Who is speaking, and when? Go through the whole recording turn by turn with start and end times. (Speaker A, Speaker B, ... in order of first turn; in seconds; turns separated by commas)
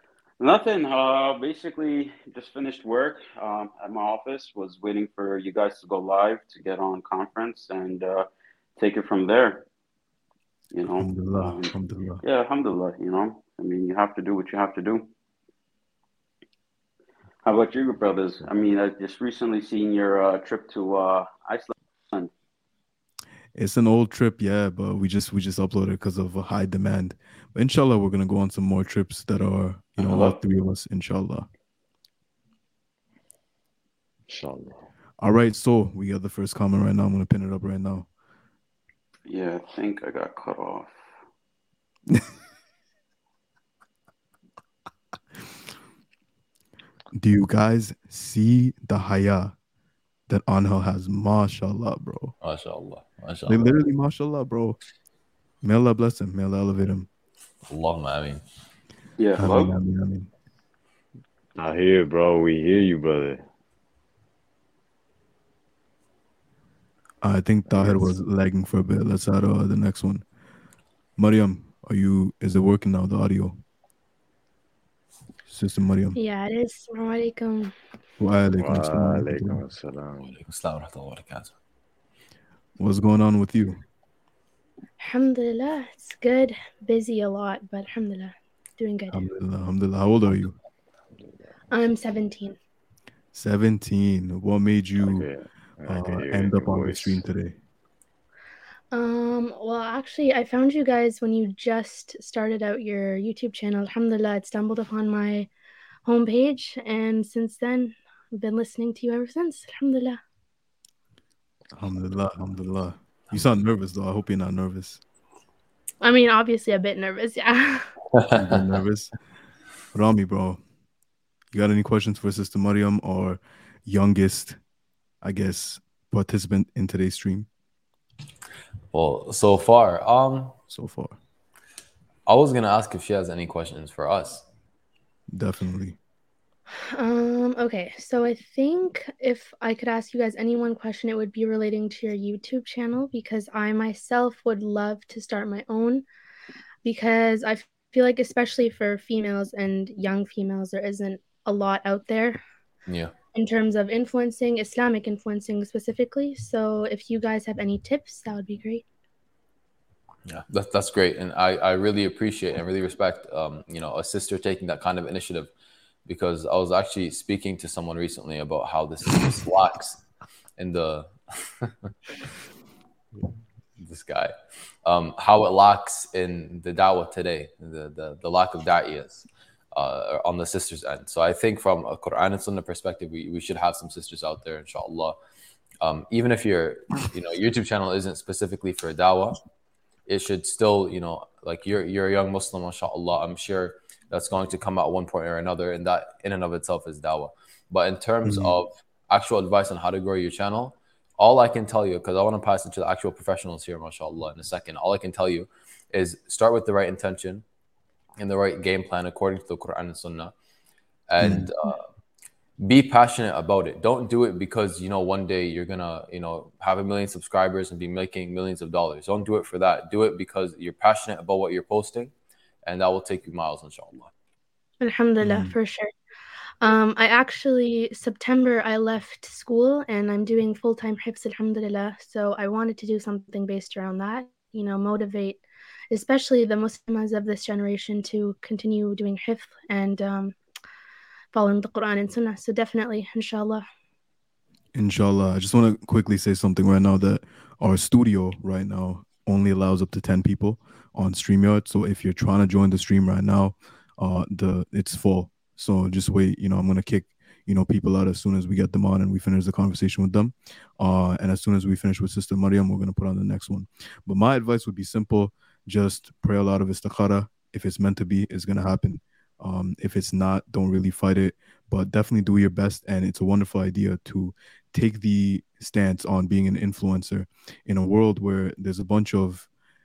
Speaker A: 0.4-9.7, Speaker A: 10.7-15.1, Speaker B: 10.9-12.2, Speaker A: 17.4-22.3, Speaker B: 23.6-31.5, Speaker A: 30.0-30.4, Speaker C: 34.3-34.9, Speaker B: 35.2-38.1, Speaker A: 39.3-41.0, Speaker B: 47.2-49.5, Speaker B: 50.3-52.3, Speaker D: 52.4-53.7, Speaker B: 53.5-54.8, Speaker B: 55.6-57.1, Speaker D: 57.7-58.4, Speaker A: 59.2-59.8, Speaker B: 59.4-60.3, Speaker C: 61.6-63.4, Speaker B: 67.2-70.2, Speaker C: 67.7-68.1, Speaker B: 71.2-73.6, Speaker B: 75.5-76.2, Speaker E: 76.2-77.7, Speaker B: 78.2-79.6, Speaker C: 78.6-80.4, Speaker D: 80.3-81.5, Speaker B: 82.8-83.8, Speaker E: 85.0-89.3, Speaker B: 89.1-90.5, Speaker C: 91.2-91.4, Speaker E: 91.7-92.6, Speaker B: 93.3-95.3, Speaker C: 95.0-97.2, Speaker B: 95.9-97.6, Speaker E: 98.9-105.5, Speaker E: 106.1-110.2, Speaker B: 111.8-115.0, Speaker E: 116.0-117.9, Speaker D: 118.1-118.6, Speaker B: 118.3-119.1, Speaker B: 119.9-120.6, Speaker B: 121.5-124.6, Speaker B: 125.2-127.5, Speaker D: 128.9-130.6, Speaker B: 130.7-131.2, Speaker D: 132.3-134.4, Speaker B: 135.3-136.0, Speaker E: 136.9-146.0, Speaker E: 146.8-152.4, Speaker D: 152.9-153.1, Speaker E: 153.3-158.8, Speaker D: 160.3-165.5, Speaker D: 166.1-170.0, Speaker D: 170.6-171.9, Speaker D: 173.8-185.2, Speaker D: 185.8-189.4, Speaker D: 190.1-207.4, Speaker B: 198.2-198.6, Speaker D: 208.2-210.3, Speaker D: 211.1-211.9, Speaker B: 211.2-211.5, Speaker D: 212.6-222.1, Speaker D: 222.6-224.1, Speaker E: 224.8-225.9, Speaker B: 225.2-225.6, Speaker E: 226.6-240.3, Speaker E: 241.3-243.7, Speaker B: 244.7-279.5